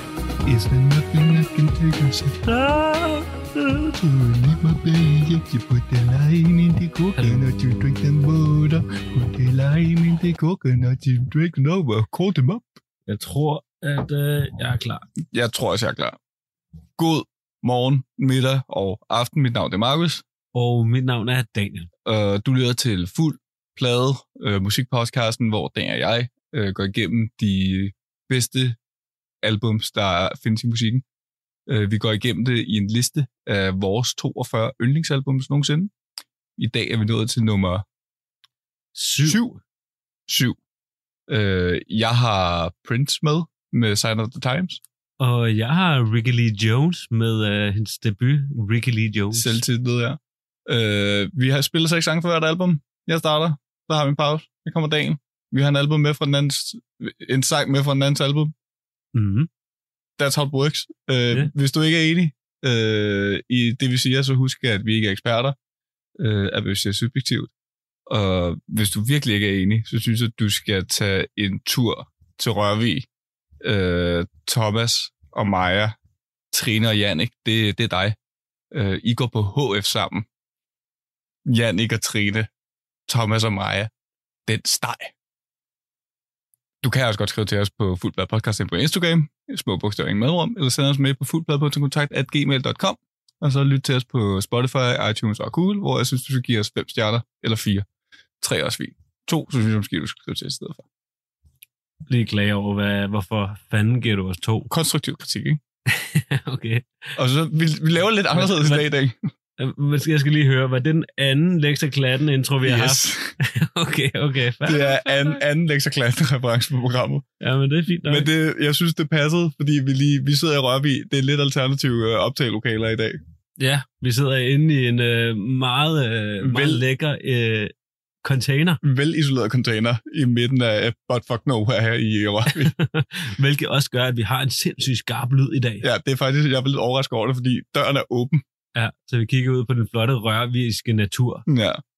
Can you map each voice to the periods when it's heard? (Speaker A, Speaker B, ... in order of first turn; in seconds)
Speaker A: 0.5-2.5, 3.9-12.7, 15.3-16.2, 17.0-20.2, 22.1-28.8, 29.4-31.0, 31.7-35.9, 36.6-37.9, 39.2-39.5, 40.3-40.6, 41.3-44.8, 49.3-58.5, 60.2-65.6, 66.2-67.5, 68.1-73.1, 73.6-76.0, 76.5-78.2, 78.7-80.3, 81.5-82.5, 83.1-83.9, 84.5-85.1, 86.8-97.9, 98.4-100.8, 104.7-105.6, 107.2-109.3, 112.6-113.3, 114.7-117.2, 118.0-123.2, 126.4-126.8, 128.8-132.7, 135.8-138.4, 141.5-141.8
Speaker B: 2.4-3.8, 7.2-7.4, 13.1-15.0, 20.5-21.9, 39.0-39.5, 45.2-49.6, 59.1-59.5, 102.1-104.7, 105.9-107.1, 108.3-108.9, 109.6-115.5, 117.4-118.3, 123.6-127.7, 128.2-128.8, 132.5-135.8, 138.8-141.4